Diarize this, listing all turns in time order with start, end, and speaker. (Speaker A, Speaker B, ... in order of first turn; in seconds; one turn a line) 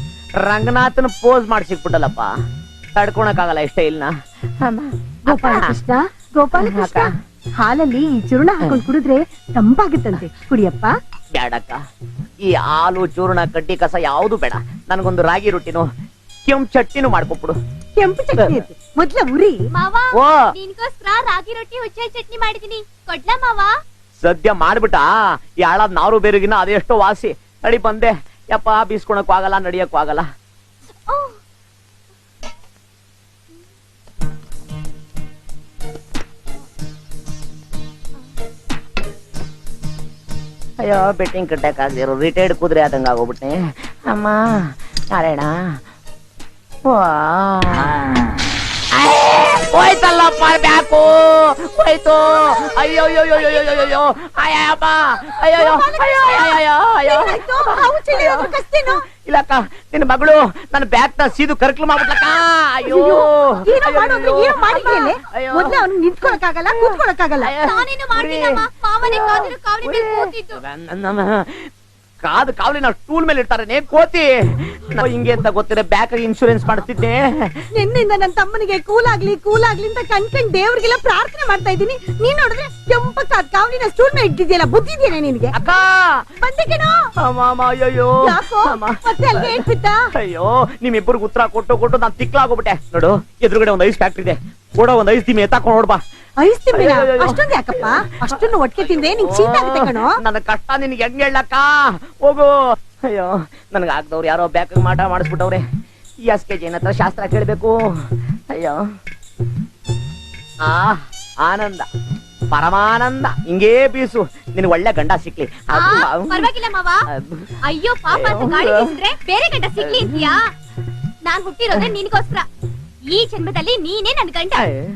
Speaker A: 0.4-2.3
Speaker A: 3.0-5.7
Speaker B: 5.3-10.9
Speaker A: 6.5-7.1
Speaker A: 11.3-11.8
Speaker A: 12.4-15.9
Speaker A: 16.4-17.6
Speaker B: 18.0-19.5
Speaker C: 19.7-23.7
Speaker A: 20.1-20.5
Speaker A: 24.2-25.1
Speaker A: 25.6-30.3
Speaker C: 31.1-31.4
Speaker A: 40.8-44.6
Speaker A: 45.1-45.5
Speaker A: 46.8-47.9
Speaker A: 49.0-65.8
Speaker B: 55.4-59.0
Speaker B: 62.9-67.5
Speaker C: 64.7-65.1
Speaker A: 66.8-71.7
Speaker C: 67.6-70.6
Speaker A: 72.2-74.3
Speaker A: 74.9-77.3
Speaker B: 77.8-85.6
Speaker A: 85.5-86.1
Speaker B: 86.4-86.9
Speaker A: 87.2-96.0
Speaker B: 88.2-90.0
Speaker B: 96.4-100.2
Speaker A: 96.7-102.5
Speaker A: 103.1-105.6
Speaker A: 106.2-107.7
Speaker A: 108.5-108.8
Speaker A: 110.6-111.8
Speaker A: 112.5-116.5
Speaker C: 115.7-117.0
Speaker A: 117.1-117.5
Speaker C: 117.6-120.4
Speaker A: 118.1-119.0
Speaker A: 119.8-120.3
Speaker C: 121.2-122.5
Speaker C: 123.1-124.6
Speaker A: 124.5-124.9